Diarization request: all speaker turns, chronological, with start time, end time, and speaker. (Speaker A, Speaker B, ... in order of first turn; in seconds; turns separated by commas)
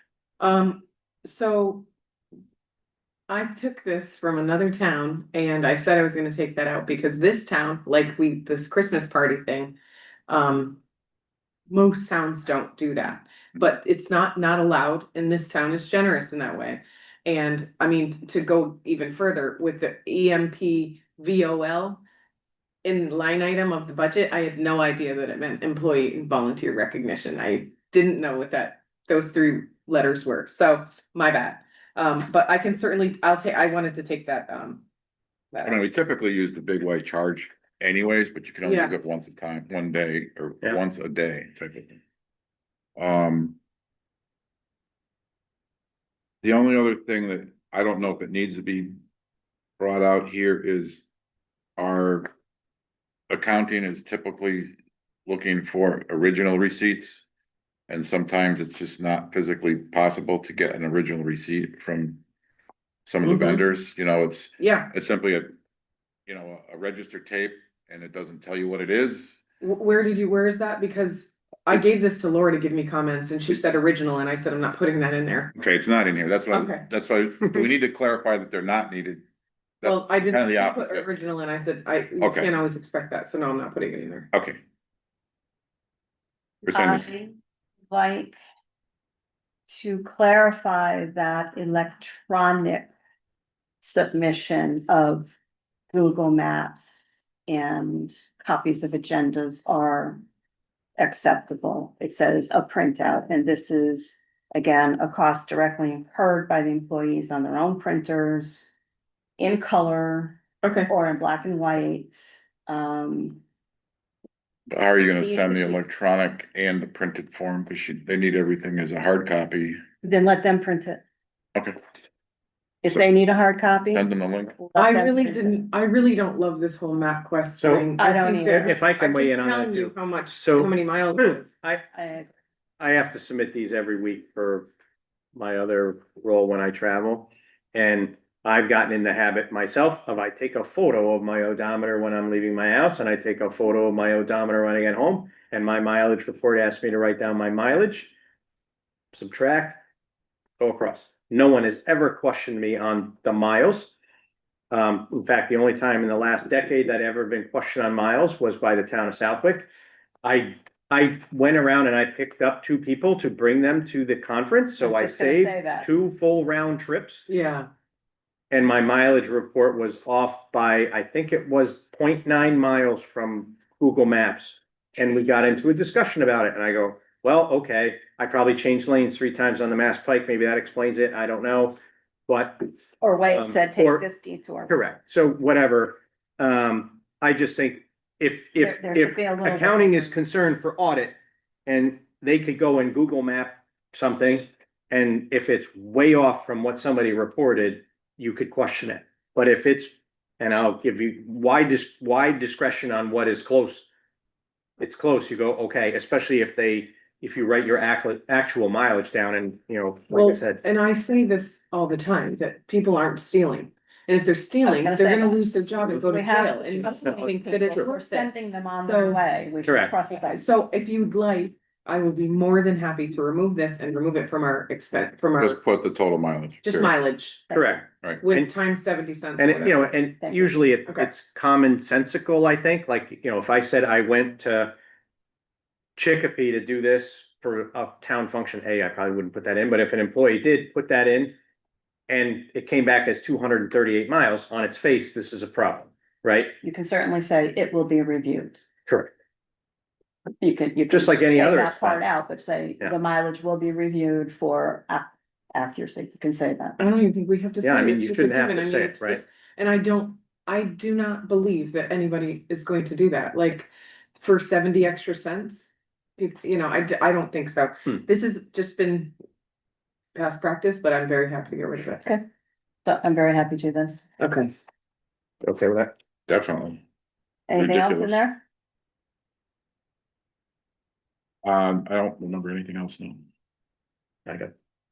Speaker A: 0.4-1.9, Speaker A: 3.3-9.7, Speaker A: 10.3-10.8, Speaker A: 11.7-22.0, Speaker A: 22.8-34.9, Speaker A: 35.5-35.8, Speaker B: 35.6-42.0, Speaker A: 38.6-38.9, Speaker B: 43.0-43.6, Speaker B: 46.4-49.0, Speaker B: 49.8-51.0, Speaker B: 51.8-52.3, Speaker B: 53.3-54.7, Speaker B: 55.2-57.2, Speaker B: 57.9-62.2, Speaker B: 63.0-65.5, Speaker A: 63.2-63.6, Speaker A: 64.6-64.9, Speaker B: 66.3-69.4, Speaker A: 69.6-75.5, Speaker B: 75.5-79.2, Speaker A: 76.5-76.9, Speaker B: 79.8-81.1, Speaker A: 79.8-84.3, Speaker B: 82.2-82.5, Speaker B: 84.3-84.6, Speaker C: 86.6-87.3, Speaker B: 86.7-87.1, Speaker C: 87.9-88.4, Speaker C: 89.7-92.9, Speaker C: 93.8-95.3, Speaker C: 95.9-100.2, Speaker C: 101.0-108.8, Speaker C: 109.4-113.4, Speaker A: 110.6-110.9, Speaker B: 114.7-119.8, Speaker C: 115.2-115.8, Speaker C: 120.0-121.0, Speaker C: 122.8-125.6, Speaker B: 123.9-124.5, Speaker A: 124.8-131.5, Speaker D: 127.6-127.9, Speaker C: 128.0-128.8, Speaker D: 128.6-131.8, Speaker C: 131.9-132.3, Speaker D: 132.8-134.7, Speaker D: 135.3-148.1, Speaker D: 149.1-149.8, Speaker D: 150.6-153.9, Speaker D: 154.7-159.7, Speaker D: 160.2-167.2, Speaker C: 164.8-165.9, Speaker A: 167.3-167.7, Speaker D: 168.5-181.8, Speaker D: 182.3-182.7, Speaker C: 183.0-184.7, Speaker D: 183.3-184.0, Speaker D: 184.7-203.9, Speaker C: 188.6-190.2, Speaker D: 204.8-210.6, Speaker A: 210.1-218.3, Speaker C: 214.6-220.4, Speaker A: 218.8-219.2, Speaker D: 219.7-219.9, Speaker A: 220.1-225.6, Speaker B: 225.4-226.9, Speaker A: 226.6-227.5, Speaker C: 227.5-227.8, Speaker D: 227.5-228.5, Speaker A: 228.2-230.0, Speaker D: 229.4-234.8, Speaker C: 230.2-230.6, Speaker D: 235.9-241.3, Speaker D: 242.1-246.6, Speaker C: 246.6-248.6, Speaker C: 250.4-256.8, Speaker D: 250.9-252.1, Speaker A: 256.8-269.1, Speaker D: 257.6-259.2, Speaker A: 270.1-272.1, Speaker C: 272.8-274.0, Speaker A: 274.2-274.5, Speaker D: 275.4-275.9, Speaker B: 276.3-276.8, Speaker C: 277.5-278.4, Speaker B: 277.6-278.2, Speaker B: 281.4-283.2, Speaker D: 284.2-284.5